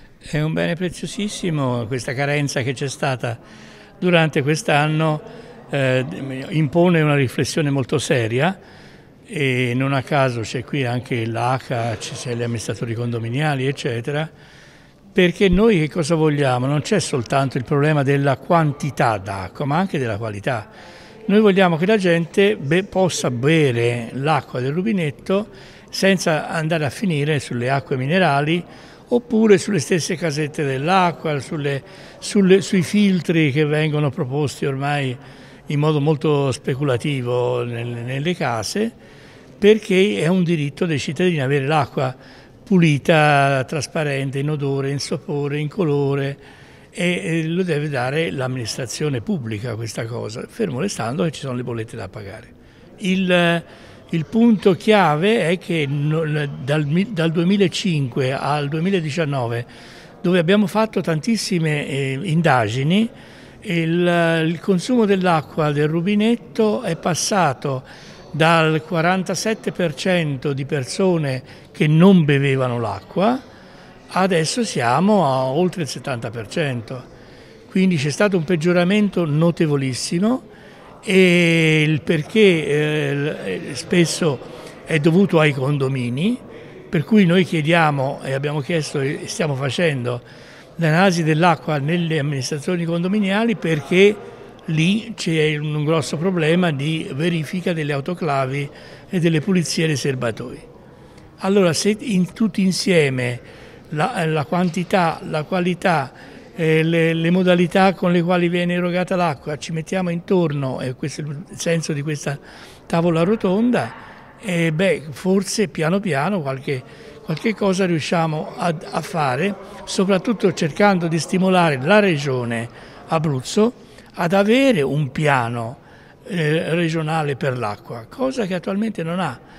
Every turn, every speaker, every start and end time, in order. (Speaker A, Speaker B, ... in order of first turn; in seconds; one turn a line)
Speaker A: 0.3-3.4
Speaker A: 4.0-8.6
Speaker A: 9.3-14.3
Speaker A: 15.1-20.7
Speaker A: 21.2-38.9
Speaker A: 39.6-46.4
Speaker A: 46.9-59.7
Speaker A: 60.2-63.1
Speaker A: 63.6-73.4
Speaker A: 74.1-77.1
Speaker A: 77.7-80.5
Speaker A: 81.0-90.2
Speaker A: 90.8-100.7
Speaker A: 101.4-129.4